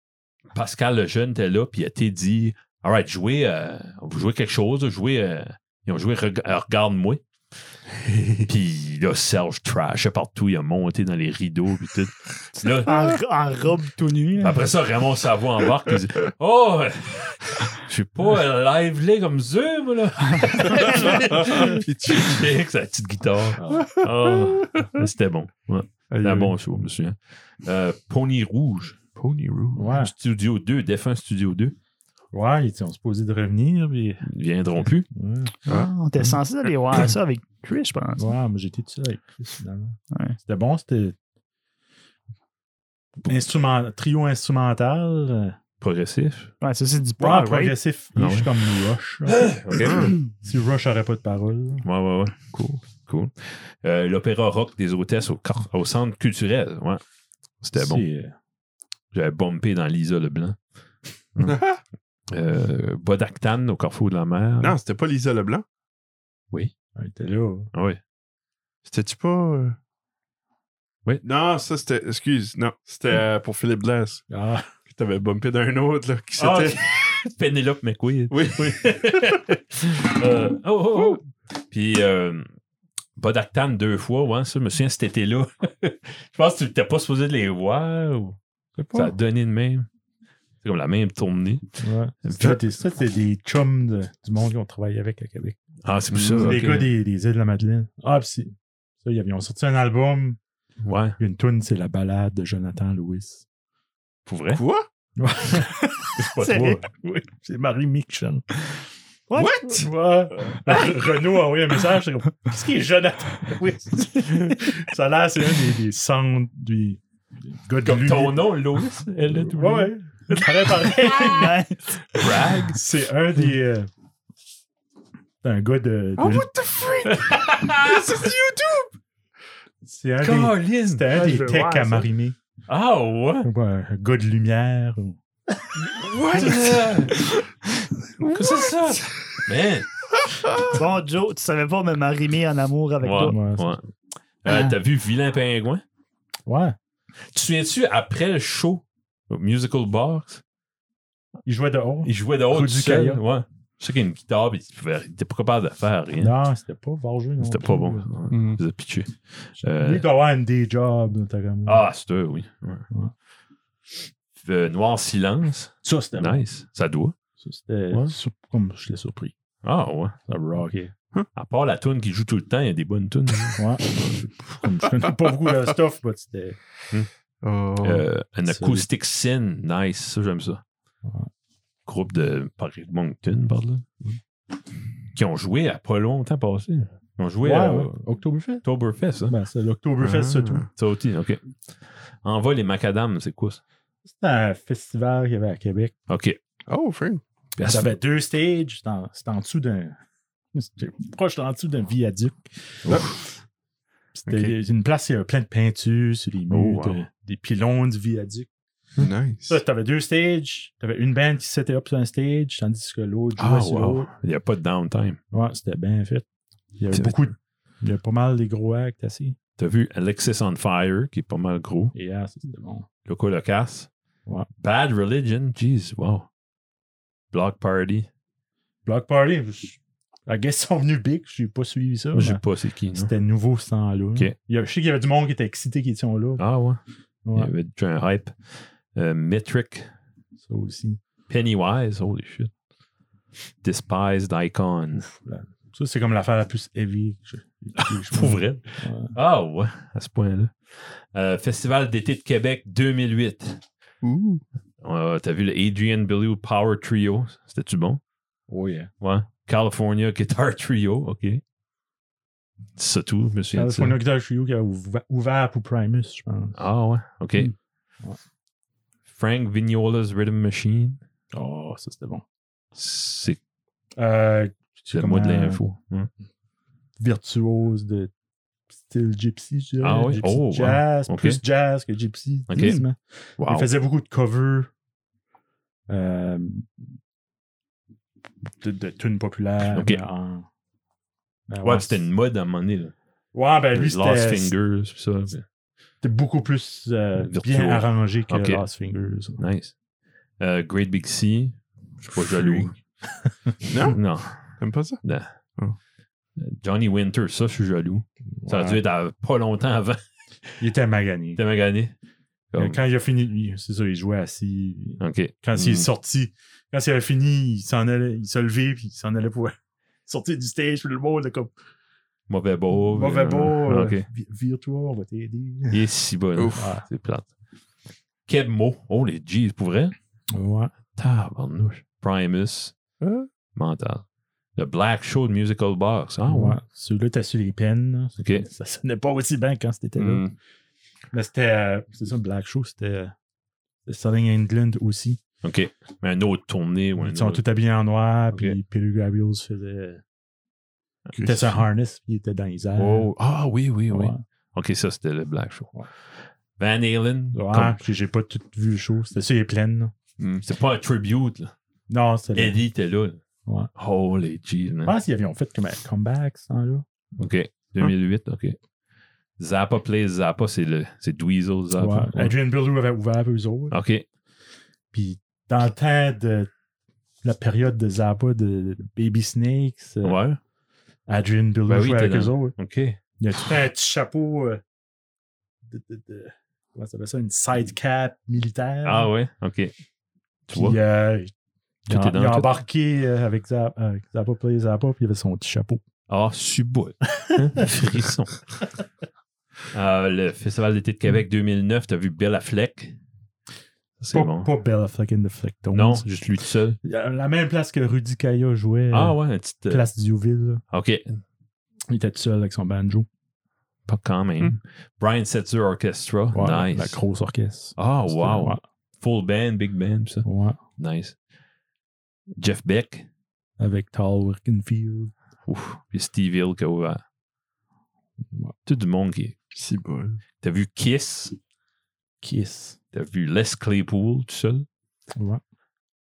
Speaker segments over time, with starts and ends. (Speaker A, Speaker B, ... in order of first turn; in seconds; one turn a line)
Speaker A: 0.5-7.2
Speaker B: 8.0-8.5
Speaker A: 8.4-13.2
Speaker C: 12.6-14.7
Speaker A: 14.4-29.0
Speaker C: 20.7-20.9
Speaker B: 20.8-22.4
Speaker D: 23.6-23.9
Speaker B: 23.8-24.8
Speaker B: 26.1-26.6
Speaker B: 29.1-29.9
Speaker D: 29.8-30.1
Speaker A: 29.9-31.8
Speaker D: 32.3-35.5
Speaker A: 34.2-35.1
Speaker C: 35.7-38.3
Speaker D: 38.2-41.2
Speaker C: 40.1-40.4
Speaker D: 43.3-45.6
Speaker A: 45.8-46.5
Speaker C: 46.6-47.8
Speaker D: 47.2-51.9
Speaker A: 48.2-48.6
Speaker A: 49.3-50.2
Speaker A: 51.8-57.0
Speaker B: 52.5-52.8
Speaker A: 57.6-58.0
Speaker D: 57.8-58.4
Speaker A: 59.1-60.6
Speaker A: 61.4-61.6
Speaker B: 61.4-61.8
Speaker A: 62.3-64.8
Speaker B: 64.6-65.7
Speaker D: 67.0-67.7
Speaker A: 67.7-68.0
Speaker B: 68.8-69.8
Speaker B: 71.2-74.2
Speaker D: 74.3-74.7
Speaker B: 74.9-76.9
Speaker A: 76.4-82.5
Speaker B: 78.3-79.4
Speaker A: 83.2-88.4
Speaker D: 88.8-89.2
Speaker A: 88.9-89.9
Speaker A: 90.6-92.6
Speaker D: 91.8-95.6
Speaker A: 95.8-96.9
Speaker B: 96.1-96.7
Speaker D: 96.4-100.4
Speaker A: 100.8-101.2
Speaker D: 101.2-103.5
Speaker A: 104.3-104.6
Speaker B: 104.5-104.9
Speaker D: 105.2-105.8
Speaker C: 106.0-106.8
Speaker A: 106.2-106.8
Speaker D: 106.9-108.5
Speaker C: 109.3-109.8
Speaker B: 109.3-109.9
Speaker D: 109.7-118.5
Speaker A: 117.8-119.9
Speaker D: 119.3-121.6
Speaker C: 120.8-122.3
Speaker A: 122.2-122.8
Speaker D: 122.6-123.9
Speaker D: 125.4-126.5
Speaker B: 126.2-128.9
Speaker A: 127.2-128.3
Speaker D: 129.8-132.4
Speaker A: 130.2-131.1
Speaker C: 131.1-132.1
Speaker A: 132.7-133.5
Speaker D: 133.4-136.7
Speaker B: 135.9-136.8
Speaker A: 136.3-137.2
Speaker A: 138.2-139.9
Speaker C: 140.7-143.4
Speaker A: 143.0-143.9
Speaker D: 143.2-143.8
Speaker A: 144.4-145.8
Speaker D: 146.5-146.8
Speaker A: 147.3-150.4
Speaker D: 151.5-153.2
Speaker A: 152.0-156.3
Speaker D: 156.2-158.1
Speaker A: 157.4-160.1
Speaker B: 158.3-158.6
Speaker D: 159.6-161.8
Speaker A: 161.7-162.8
Speaker A: 164.4-167.2
Speaker D: 165.8-166.4
Speaker D: 167.4-169.3
Speaker A: 169.6-170.2
Speaker D: 170.3-170.9
Speaker A: 171.3-173.7
Speaker D: 173.6-176.6
Speaker B: 177.4-178.1
Speaker A: 177.8-180.6
Speaker D: 178.5-178.8
Speaker A: 181.9-183.9
Speaker A: 185.1-188.0
Speaker D: 187.4-188.7
Speaker A: 188.6-189.3
Speaker D: 189.3-190.7
Speaker B: 190.0-190.7
Speaker A: 190.8-193.6
Speaker D: 194.1-195.9
Speaker A: 196.1-196.4
Speaker B: 196.7-197.2
Speaker A: 197.6-197.9
Speaker D: 197.6-200.0
Speaker D: 200.5-202.8
Speaker B: 202.9-203.1
Speaker A: 202.9-203.1
Speaker D: 204.2-208.5
Speaker B: 204.3-204.5
Speaker A: 206.5-207.0
Speaker B: 209.0-209.6
Speaker D: 209.5-214.1
Speaker A: 213.4-215.2
Speaker D: 215.3-216.3
Speaker D: 216.8-219.4
Speaker A: 216.9-217.2
Speaker A: 219.6-221.9
Speaker D: 221.9-222.9
Speaker A: 223.1-223.9
Speaker A: 224.6-226.3
Speaker A: 227.3-228.1
Speaker D: 228.9-232.4
Speaker A: 232.1-233.1
Speaker D: 232.9-236.4
Speaker A: 236.4-236.8
Speaker D: 237.2-237.5
Speaker A: 237.3-239.9
Speaker D: 240.4-241.0
Speaker A: 241.3-242.5
Speaker A: 243.6-245.1
Speaker D: 245.0-249.2
Speaker A: 247.8-253.6
Speaker B: 254.0-254.4
Speaker A: 254.8-258.0
Speaker D: 258.5-258.9
Speaker A: 259.0-261.4
Speaker A: 262.8-264.0
Speaker D: 263.5-266.6
Speaker A: 266.6-267.5
Speaker A: 269.1-271.0
Speaker D: 271.3-272.2
Speaker A: 272.8-273.4
Speaker D: 274.0-275.6
Speaker A: 274.9-276.1
Speaker D: 277.0-278.1
Speaker D: 278.8-284.7
Speaker A: 279.8-281.4
Speaker A: 282.5-282.8
Speaker A: 283.4-283.7
Speaker D: 285.9-286.7
Speaker D: 288.6-290.5
Speaker A: 289.6-290.0
Speaker D: 291.5-292.1
Speaker A: 291.6-292.9
Speaker D: 293.3-294.5
Speaker A: 293.7-295.4
Speaker D: 296.0-299.4
Speaker A: 297.2-298.6
Speaker A: 299.4-299.8
Speaker A: 300.4-302.8
Speaker D: 302.2-302.8
Speaker B: 303.7-305.0
Speaker A: 303.9-305.3
Speaker A: 306.4-310.6
Speaker D: 308.4-308.8
Speaker D: 310.6-311.4
Speaker A: 311.4-311.9
Speaker A: 312.5-312.8
Speaker D: 312.6-321.5
Speaker A: 315.0-315.9
Speaker A: 322.3-324.1
Speaker D: 322.9-325.9
Speaker A: 325.7-327.3
Speaker B: 326.4-326.7
Speaker D: 326.5-326.8
Speaker A: 328.3-329.9
Speaker D: 330.3-330.7
Speaker A: 331.0-332.8
Speaker B: 333.0-333.3
Speaker A: 333.6-334.1
Speaker A: 334.6-336.6
Speaker D: 336.3-340.3
Speaker A: 338.2-338.5
Speaker B: 340.0-340.3
Speaker D: 341.1-343.1
Speaker D: 343.9-345.2
Speaker A: 345.4-347.4
Speaker D: 347.0-350.0
Speaker B: 351.2-351.4
Speaker D: 351.2-353.1
Speaker A: 352.8-355.8
Speaker D: 353.9-354.2
Speaker A: 356.6-357.8
Speaker D: 357.3-359.9
Speaker A: 360.4-361.5
Speaker D: 361.9-362.6
Speaker A: 362.3-363.2
Speaker A: 363.8-364.9
Speaker D: 364.9-366.9
Speaker A: 367.2-368.6
Speaker A: 369.4-372.3
Speaker D: 371.8-373.8
Speaker A: 373.7-374.1
Speaker D: 374.9-376.5
Speaker D: 377.2-380.2
Speaker A: 380.0-380.4
Speaker D: 381.1-382.6
Speaker A: 381.7-383.0
Speaker D: 383.2-384.6
Speaker D: 385.7-389.1
Speaker A: 388.8-389.7
Speaker A: 390.5-390.8
Speaker D: 390.5-391.3
Speaker A: 391.9-392.6
Speaker D: 391.9-395.8
Speaker A: 396.1-398.5
Speaker A: 399.7-403.0
Speaker A: 404.0-404.5
Speaker D: 404.1-406.2
Speaker A: 405.7-406.8
Speaker D: 406.8-410.6
Speaker A: 408.9-409.9
Speaker A: 410.7-411.2
Speaker D: 411.9-413.1
Speaker A: 413.9-417.0
Speaker D: 416.3-418.6
Speaker A: 417.8-420.3
Speaker D: 420.2-420.6
Speaker A: 420.8-421.2
Speaker A: 422.4-423.1
Speaker D: 423.6-425.1
Speaker A: 425.5-427.0
Speaker A: 428.7-429.4
Speaker B: 429.5-430.2
Speaker A: 430.4-431.4
Speaker D: 432.2-432.8
Speaker A: 432.9-434.7
Speaker D: 435.2-435.4